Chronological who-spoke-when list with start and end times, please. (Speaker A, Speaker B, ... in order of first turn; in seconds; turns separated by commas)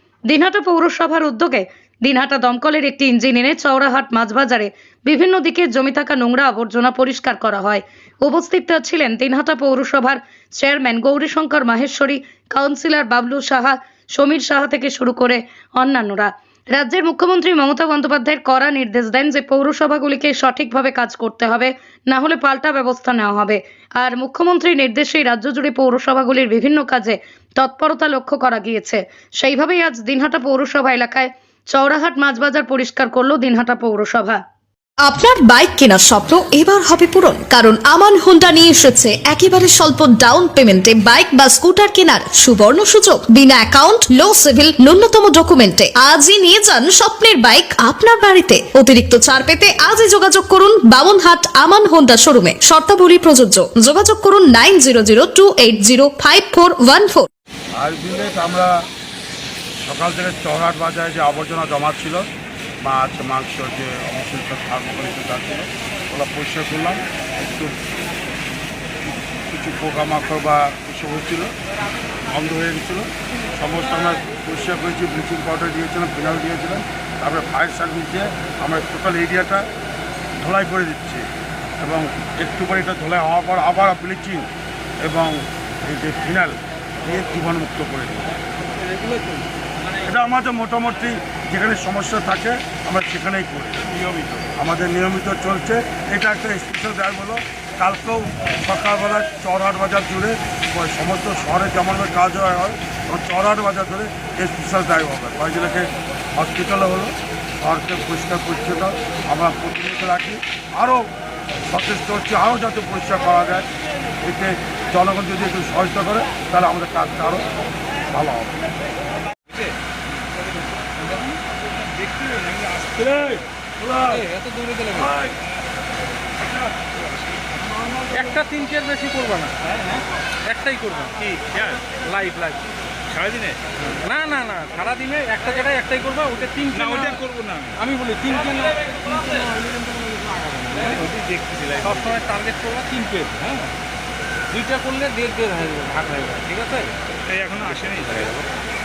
Speaker A: 0.3-34.4, Speaker B: 35.0-57.3, Speaker C: 57.8-58.7, Speaker C: 59.8-62.3, Speaker C: 62.8-67.7, Speaker C: 69.4-71.5, Speaker C: 72.3-79.7, Speaker C: 80.4-81.3, Speaker C: 81.8-84.5, Speaker C: 85.0-88.4, Speaker C: 90.0-93.9, Speaker C: 94.5-111.1, Speaker C: 111.7-113.7, Speaker C: 114.2-117.5, Speaker C: 118.1-118.7, Speaker D: 119.5-124.2, Speaker E: 124.1-125.2, Speaker D: 125.0-125.3, Speaker D: 126.5-128.2, Speaker E: 128.1-129.6, Speaker D: 129.7-130.0, Speaker E: 130.4-131.3, Speaker D: 131.2-131.9, Speaker E: 131.9-132.7, Speaker D: 133.1-133.6, Speaker E: 134.0-137.2, Speaker D: 136.7-137.8, Speaker E: 137.8-141.0, Speaker D: 140.8-142.3, Speaker E: 141.8-143.7, Speaker E: 144.5-147.0, Speaker D: 147.3-148.5